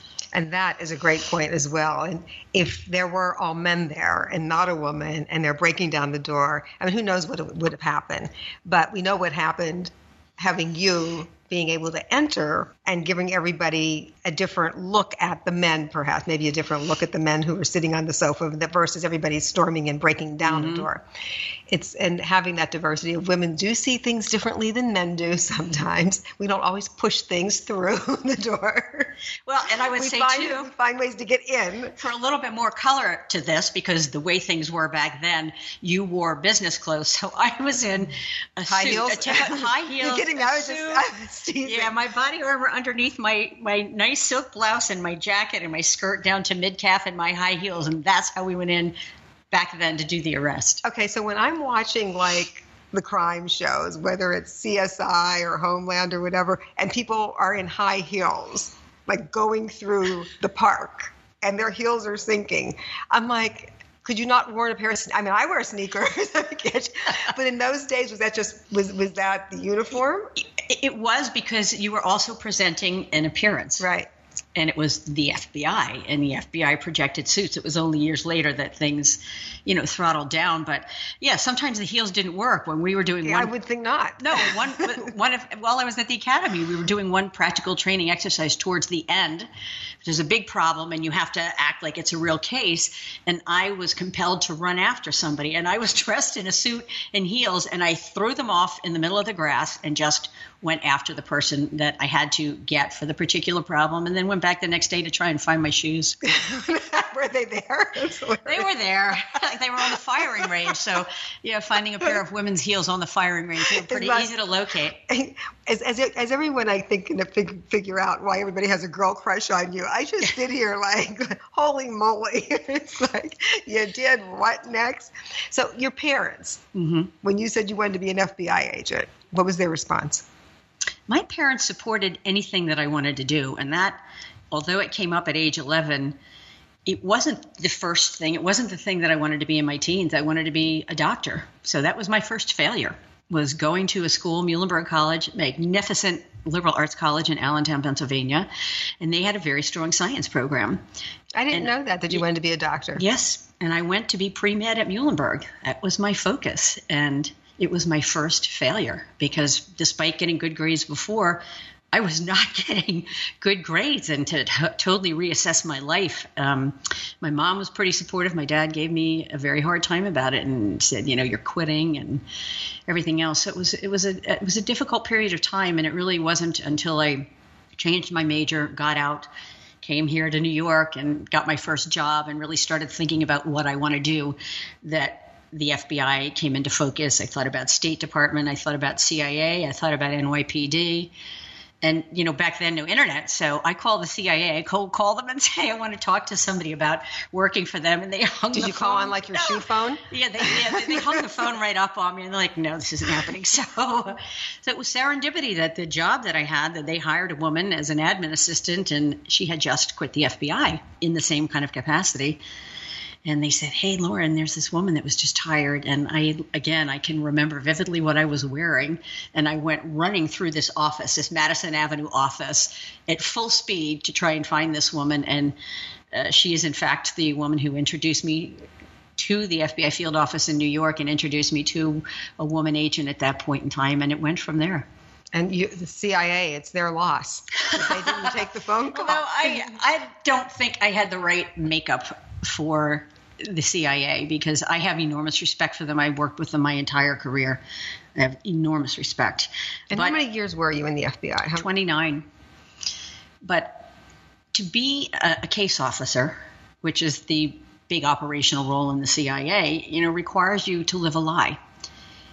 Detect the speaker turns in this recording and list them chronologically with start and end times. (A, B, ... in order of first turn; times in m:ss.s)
0:00.3-0:21.0 A
0:20.4-0:20.9 B
0:21.7-0:29.2 A
0:29.4-0:30.7 B
0:29.7-0:32.0 A
0:32.0-0:41.0 B
0:38.7-0:42.0 A
0:41.6-0:49.0 B
0:49.5-0:50.8 B
0:50.8-1:10.3 A
1:10.6-1:13.9 B
1:13.8-1:14.1 A
1:14.6-1:23.5 B
1:23.2-1:25.1 A
1:24.2-1:29.5 B
1:30.0-1:46.2 B
1:46.2-1:49.2 A
1:48.4-1:55.0 B
1:50.2-1:50.5 A
1:53.6-1:54.3 A
1:55.0-2:06.6 A
2:06.7-2:07.1 B
2:07.2-2:10.2 A
2:11.1-2:16.2 B
2:16.8-2:28.5 B
2:29.0-2:30.8 B
2:31.3-2:33.0 A
2:31.5-2:32.2 B
2:33.0-2:52.2 B
2:52.9-2:59.3 B
2:59.8-3:11.1 B
3:11.8-3:32.4 B
3:18.5-3:21.3 A
3:33.2-3:45.6 B
3:46.1-3:48.6 B
3:49.2-3:54.8 B
3:55.3-3:59.7 A
3:57.7-3:58.3 B
3:58.9-4:07.6 B
4:08.2-4:10.2 B
4:09.9-4:11.7 A
4:11.5-4:12.2 B
4:13.4-4:13.8 B
4:14.5-4:21.6 B